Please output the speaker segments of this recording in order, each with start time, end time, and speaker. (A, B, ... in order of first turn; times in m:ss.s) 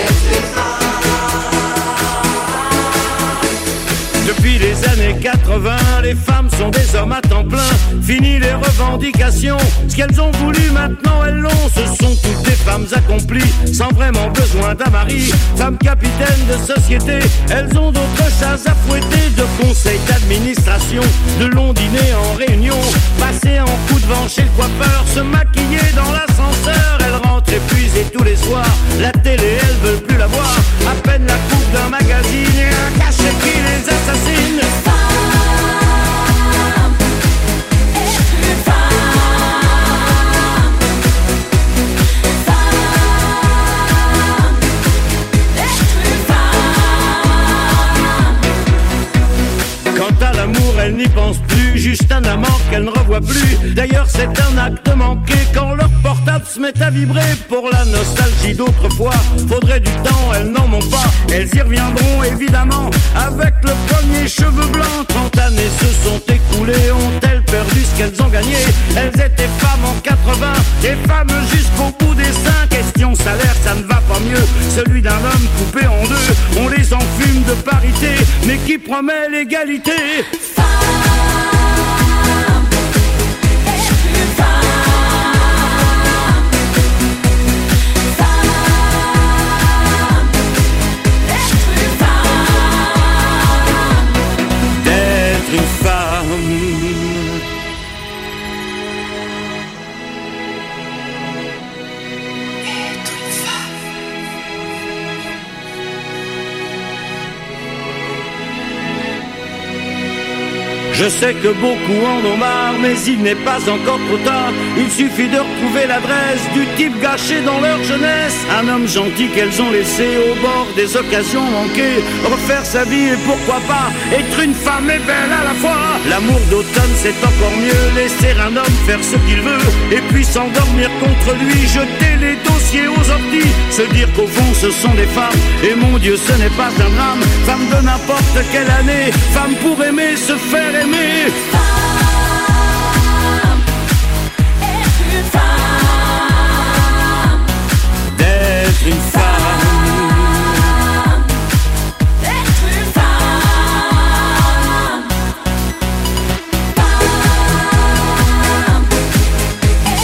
0:04.2-0:34.7 A
0:49.9-1:20.3 A
1:34.7-1:37.4 A
1:43.1-1:43.5 A
1:50.9-2:21.4 A
2:28.0-2:30.7 A